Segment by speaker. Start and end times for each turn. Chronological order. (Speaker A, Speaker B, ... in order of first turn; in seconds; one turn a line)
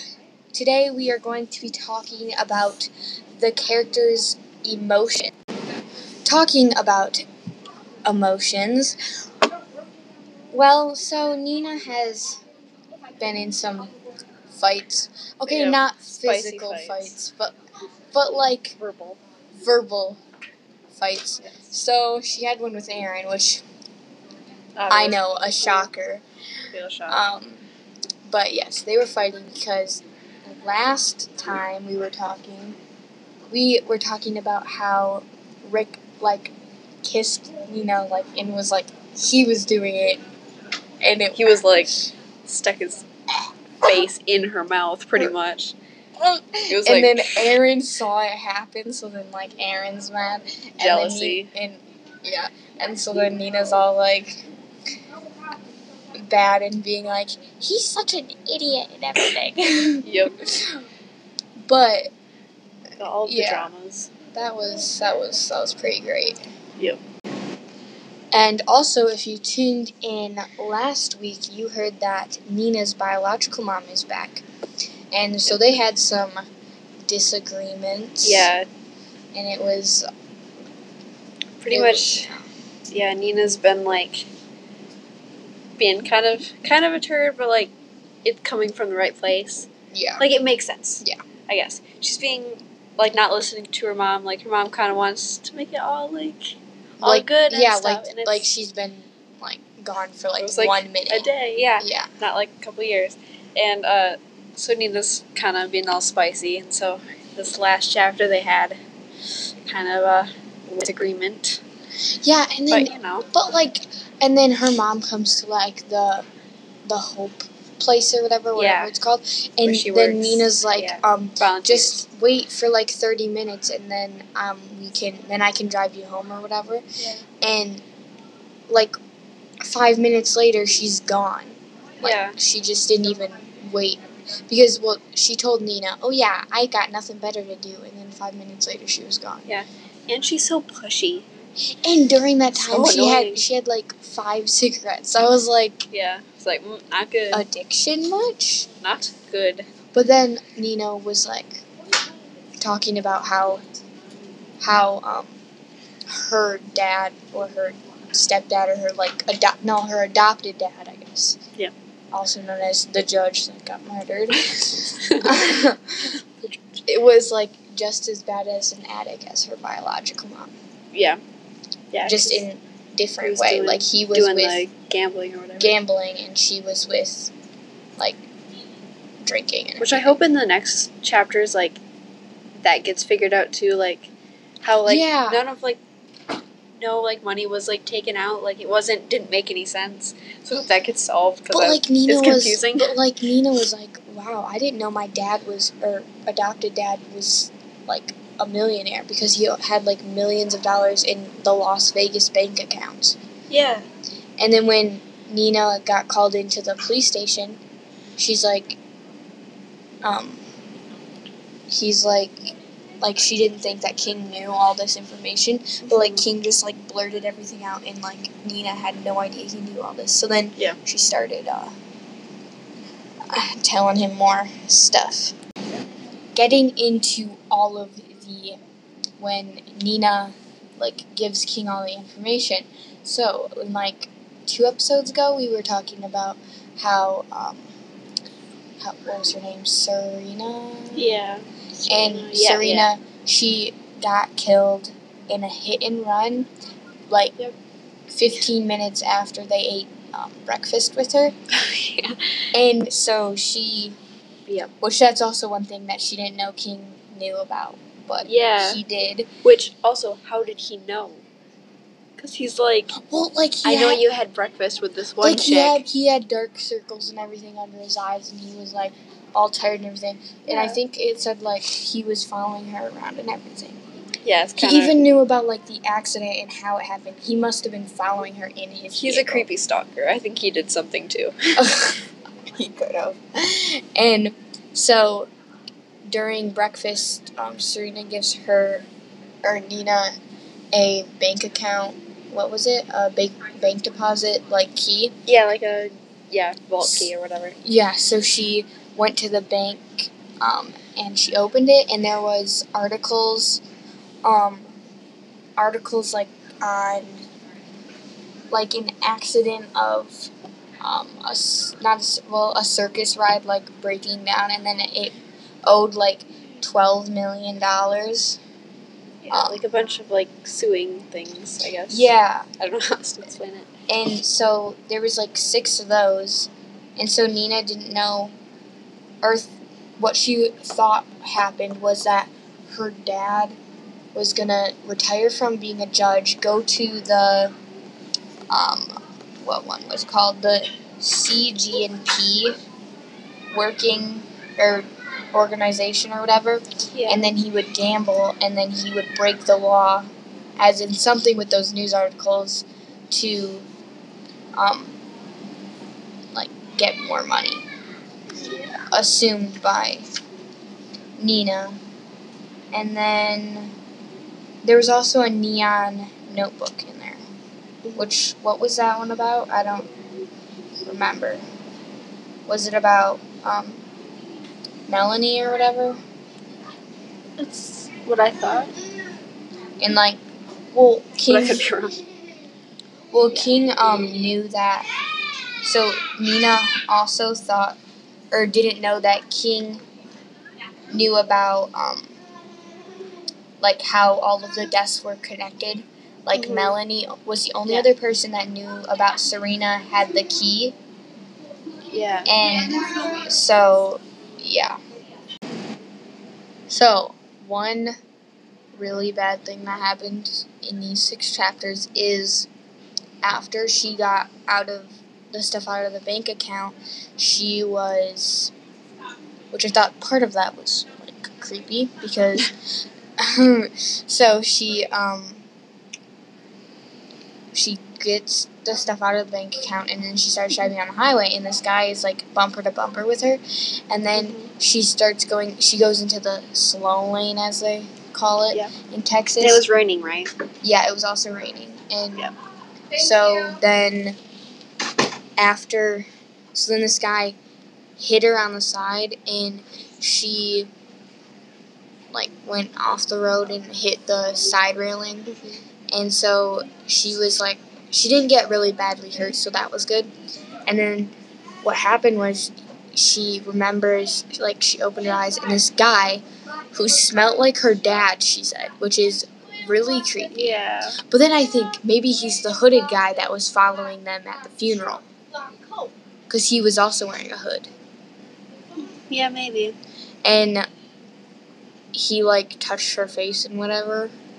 Speaker A: 0.5-5.3
Speaker A: 6.2-7.2
Speaker A: 8.1-9.0
Speaker A: 10.5-12.4
Speaker A: 13.2-13.9
Speaker A: 14.5-17.6
Speaker B: 15.5-17.2
Speaker A: 18.1-18.8
Speaker B: 18.8-19.2
Speaker A: 19.6-20.2
Speaker A: 20.9-23.6
Speaker B: 21.4-21.7
Speaker B: 24.8-25.9
Speaker A: 24.9-26.2
Speaker B: 26.7-27.2
Speaker A: 27.1-27.6
Speaker A: 28.3-32.8
Speaker A: 33.5-40.2
Speaker A: 41.0-41.9
Speaker B: 41.4-43.1
Speaker B: 43.8-45.7
Speaker A: 46.2-54.5
Speaker B: 46.7-47.5
Speaker B: 50.8-51.5
Speaker A: 56.2-60.8
Speaker B: 60.0-60.5
Speaker A: 61.7-62.1
Speaker B: 63.0-64.1
Speaker A: 63.3-63.7
Speaker A: 64.3-66.4
Speaker A: 68.3-74.4
Speaker A: 75.1-76.5
Speaker A: 77.1-78.5
Speaker B: 78.2-78.7
Speaker A: 79.3-80.1
Speaker B: 81.6-82.3
Speaker A: 81.7-82.5
Speaker B: 82.9-84.3
Speaker B: 85.8-87.7
Speaker B: 88.2-96.4
Speaker A: 89.9-90.2
Speaker B: 97.0-98.5
Speaker A: 97.0-102.1
Speaker B: 100.4-108.8
Speaker B: 109.6-111.6
Speaker A: 112.2-116.3
Speaker B: 112.7-113.3
Speaker A: 116.9-126.8
Speaker B: 118.5-119.0
Speaker B: 119.7-122.0
Speaker A: 127.4-127.8
Speaker A: 128.7-128.9
Speaker A: 129.6-139.5
Speaker B: 132.0-132.4
Speaker B: 139.5-141.3
Speaker A: 141.6-145.9
Speaker B: 142.5-143.4
Speaker B: 145.9-147.4
Speaker A: 147.3-148.7
Speaker B: 148.8-149.7
Speaker A: 149.9-151.6
Speaker A: 152.6-153.6
Speaker A: 154.6-155.4
Speaker A: 156.1-161.4
Speaker A: 162.1-166.1
Speaker B: 165.0-165.6
Speaker A: 166.9-170.5
Speaker B: 170.9-171.2
Speaker B: 171.9-172.5
Speaker A: 172.1-174.7
Speaker B: 173.2-175.8
Speaker A: 175.6-177.3
Speaker A: 178.0-178.2
Speaker A: 179.2-180.2
Speaker B: 179.8-181.8
Speaker B: 182.6-184.1
Speaker B: 184.6-185.8
Speaker A: 184.8-185.5
Speaker B: 186.8-193.0
Speaker A: 191.5-203.2
Speaker B: 203.5-203.9
Speaker A: 204.4-207.6
Speaker A: 208.2-208.8
Speaker A: 210.0-210.4
Speaker A: 211.7-212.4
Speaker A: 213.0-221.8
Speaker B: 215.8-216.3
Speaker A: 223.3-225.3
Speaker A: 226.3-228.6
Speaker A: 229.2-237.7
Speaker A: 238.8-241.1
Speaker B: 240.9-242.9
Speaker A: 241.9-246.5
Speaker A: 247.1-247.4
Speaker A: 248.1-251.3
Speaker B: 251.5-252.4
Speaker A: 252.5-254.0
Speaker B: 254.5-254.7
Speaker A: 254.8-259.3
Speaker B: 258.2-258.8
Speaker B: 259.4-261.2
Speaker B: 262.2-263.1
Speaker A: 262.9-264.1
Speaker B: 263.6-265.8
Speaker A: 265.2-273.8
Speaker B: 270.5-270.8
Speaker B: 274.2-275.1
Speaker A: 274.6-279.5
Speaker B: 279.0-281.6
Speaker A: 281.6-285.3
Speaker A: 286.1-288.9
Speaker A: 289.4-290.1
Speaker A: 290.7-295.1
Speaker B: 295.3-297.6
Speaker A: 296.8-297.1
Speaker A: 297.6-303.6
Speaker A: 304.2-304.6
Speaker A: 305.6-307.3
Speaker A: 308.5-318.4
Speaker B: 319.2-323.7
Speaker A: 319.3-319.6
Speaker A: 321.9-322.5
Speaker A: 323.9-328.3
Speaker A: 329.2-333.6
Speaker A: 334.1-337.5
Speaker A: 338.5-342.6
Speaker A: 343.5-353.7
Speaker B: 346.9-347.3
Speaker A: 354.6-355.0
Speaker A: 356.3-357.6
Speaker B: 358.4-358.8
Speaker A: 358.9-360.1
Speaker A: 361.2-361.8
Speaker A: 362.7-363.8
Speaker A: 364.6-367.2
Speaker A: 368.0-369.9
Speaker A: 370.8-371.4
Speaker A: 372.5-373.8
Speaker A: 374.9-376.0
Speaker B: 377.4-378.7
Speaker A: 379.8-380.2
Speaker A: 380.7-381.6
Speaker B: 381.3-382.0
Speaker A: 383.1-384.9
Speaker A: 385.6-387.8
Speaker A: 388.3-389.8
Speaker A: 390.9-392.2
Speaker A: 393.6-400.8
Speaker B: 396.3-396.8
Speaker B: 401.9-402.3
Speaker A: 402.3-404.8
Speaker A: 406.7-407.9
Speaker A: 408.8-412.5
Speaker A: 413.2-418.5
Speaker A: 419.5-422.5
Speaker A: 423.2-425.4
Speaker A: 427.5-439.6
Speaker B: 434.1-434.5
Speaker B: 439.4-440.3
Speaker A: 440.6-442.3
Speaker A: 443.0-444.2
Speaker A: 445.4-447.4
Speaker A: 448.0-450.7
Speaker A: 452.1-455.4
Speaker B: 455.3-455.6
Speaker A: 455.9-460.1
Speaker A: 460.7-475.1
Speaker B: 470.3-471.0
Speaker A: 476.3-477.7
Speaker B: 479.0-479.8
Speaker A: 480.2-480.7
Speaker A: 481.9-484.1